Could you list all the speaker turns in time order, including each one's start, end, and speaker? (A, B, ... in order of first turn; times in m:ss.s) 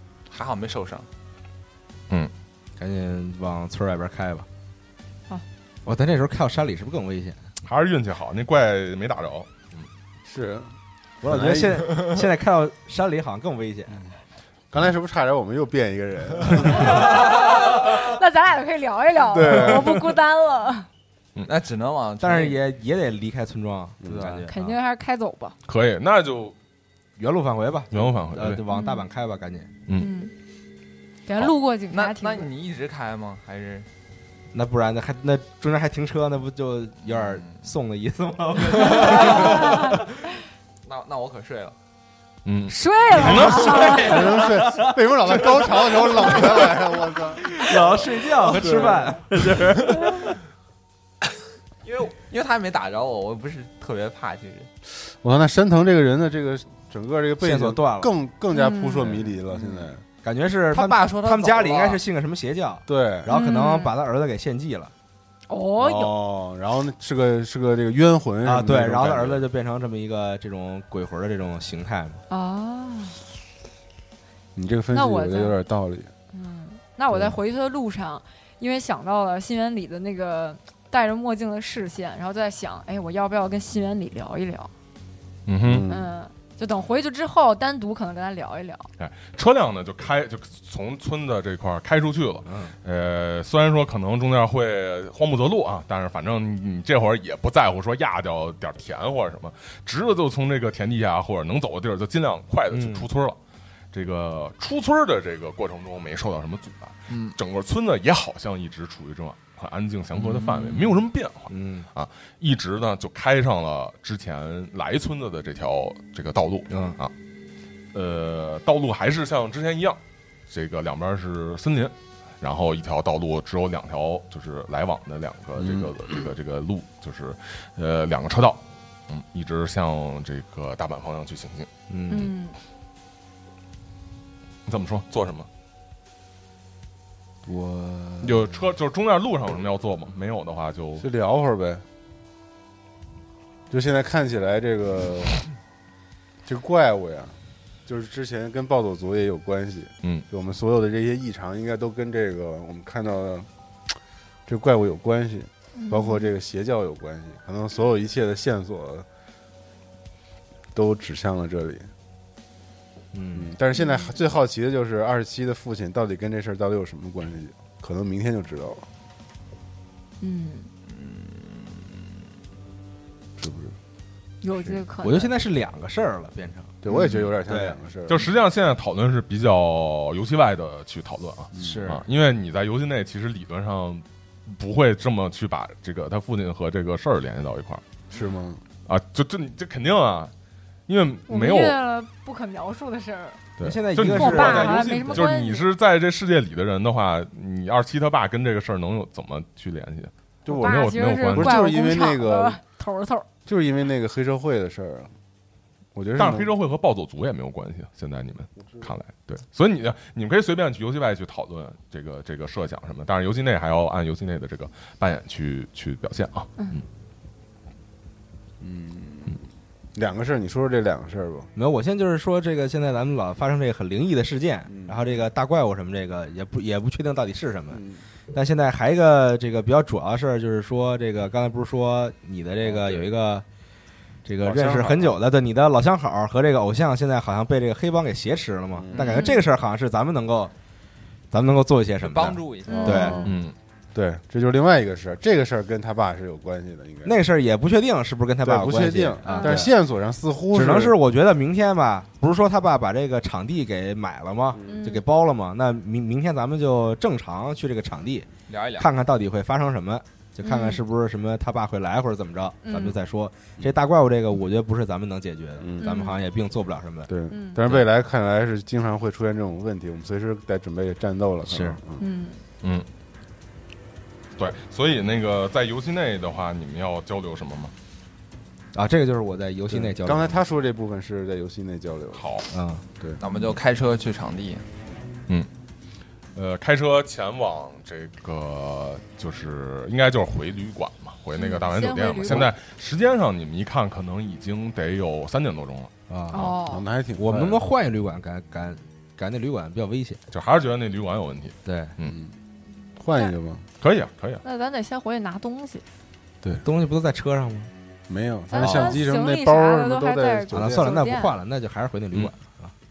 0:00.3-0:01.1 A
0:02.8-0:04.4 B
0:05.8-0:07.4 B
0:07.6-0:09.9 C
0:10.2-0:10.7 D
0:11.2-0:14.0 B
0:11.2-0:11.9 D
0:14.7-0:17.1 D
0:16.7-0:20.9 E
0:19.3-0:20.1 D
0:21.4-0:22.6 A
0:22.2-0:24.8 B
0:24.0-0:24.4 D
0:24.1-0:24.4 A
0:24.5-0:25.5 E
0:25.6-0:26.5 C
0:27.2-0:29.7 B
0:27.9-0:28.6 C
0:28.6-0:29.1 E
0:29.9-0:30.3 E
0:31.2-0:32.5 E
0:31.9-0:33.9 A
0:34.5-0:40.0 B
0:37.0-0:37.7 A
0:38.6-0:39.7 A
0:39.0-0:40.1 E
0:40.8-0:41.8 A
0:42.4-0:43.7 C
0:42.7-0:44.3 E
0:43.4-0:46.8 B
0:43.8-0:44.2 A
0:44.0-0:47.6 D
0:47.4-0:50.3 B
0:48.4-0:49.1 D
0:51.8-0:54.7 A
0:54.9-1:00.0 D
0:57.4-0:58.1 B
0:58.5-0:59.1 E
0:59.5-0:59.9 A
1:00.2-1:04.9 B
1:00.7-1:02.0 A
1:02.9-1:03.3 D
1:03.3-1:04.0 E
1:05.5-1:06.2 E
1:05.8-1:09.5 D
1:08.4-1:12.2 B
1:12.3-1:13.2 E
1:14.5-1:16.1 D
1:14.9-1:15.6 E
1:16.3-1:24.7 E
1:17.1-1:17.4 D
1:25.5-1:25.8 C
1:25.6-1:26.1 D
1:25.9-1:28.9 E
1:29.0-1:43.4 C
1:32.4-1:32.7 B
1:42.7-1:43.1 B
1:43.9-1:57.1 C
1:47.1-1:47.4 A
1:51.5-1:51.9 B
1:56.7-1:57.0 B
1:57.9-2:11.7 C
2:05.6-2:05.9 D
2:11.9-2:12.3 B
2:12.1-2:12.6 E
2:14.7-2:15.5 C
2:17.4-2:18.5 B
2:18.2-2:21.0 C
2:21.0-2:21.8 D
2:23.7-2:25.4 D
2:26.4-2:33.5 D
2:34.5-2:39.0 D
2:35.8-2:36.3 E
2:40.7-2:41.9 D
2:43.1-2:43.5 B
2:43.3-2:48.9 D
2:43.7-2:44.2 E
2:50.2-2:50.7 E
2:50.9-2:51.8 A
2:53.4-2:53.8 D
2:54.4-2:55.4 E
2:55.0-2:56.8 B
2:56.8-2:58.3 D
2:56.9-2:57.2 C
2:57.4-2:57.8 B
2:58.1-3:07.8 C
3:01.5-3:01.9 D
3:01.5-3:02.0 B
3:08.1-3:08.6 D
3:08.9-3:10.3 C
3:10.9-3:11.8 C
3:11.3-3:13.5 E
3:13.6-3:21.6 C
3:13.6-3:15.3 B
3:14.1-3:15.7 E
3:20.4-3:22.6 D
3:20.4-3:23.3 E
3:23.4-3:25.1 D
3:25.9-3:26.5 D
3:26.2-3:36.8 C
3:38.6-3:39.4 D
3:39.9-3:41.5 D
3:41.5-3:53.4 B
3:44.6-3:45.2 D
3:47.7-3:48.0 D
3:52.6-3:53.1 D
3:54.2-4:00.5 B
3:54.4-3:55.2 D
3:58.7-3:59.2 D
3:58.9-3:59.4 E
4:01.3-4:03.3 B
4:02.0-4:03.2 A
4:02.6-4:03.3 E
4:02.9-4:03.3 D
4:03.2-4:03.5 C
4:03.9-4:07.2 D
4:07.0-4:09.7 B
4:08.4-4:11.0 D
4:09.2-4:09.7 E
4:10.5-4:27.1 B
4:14.6-4:15.0 E
4:18.5-4:18.9 A
4:20.4-4:20.8 E
4:22.6-4:23.0 E
4:25.6-4:25.9 D
4:25.8-4:26.2 E
4:27.1-4:32.0 D
4:27.3-4:27.7 E
4:31.4-4:31.8 B
4:32.0-4:32.4 E
4:34.4-4:37.7 C
4:38.7-4:40.4 B
4:39.7-4:42.2 D
4:42.1-4:42.5 C
4:42.5-4:42.8 B
4:43.2-4:44.6 A
4:46.3-4:55.9 C
4:51.3-4:52.5 E
4:56.1-4:56.5 B
4:56.3-4:56.8 E
4:56.4-4:57.6 D
4:57.2-5:00.2 B
5:00.3-5:02.2 C
5:01.6-5:01.9 B
5:02.0-5:02.3 D
5:03.0-5:03.6 D
5:03.8-5:04.4 C
5:04.4-5:05.8 E
5:06.6-5:07.7 B
5:08.1-5:11.0 D
5:08.5-5:11.4 E
5:08.6-5:09.0 B
5:10.5-5:12.7 B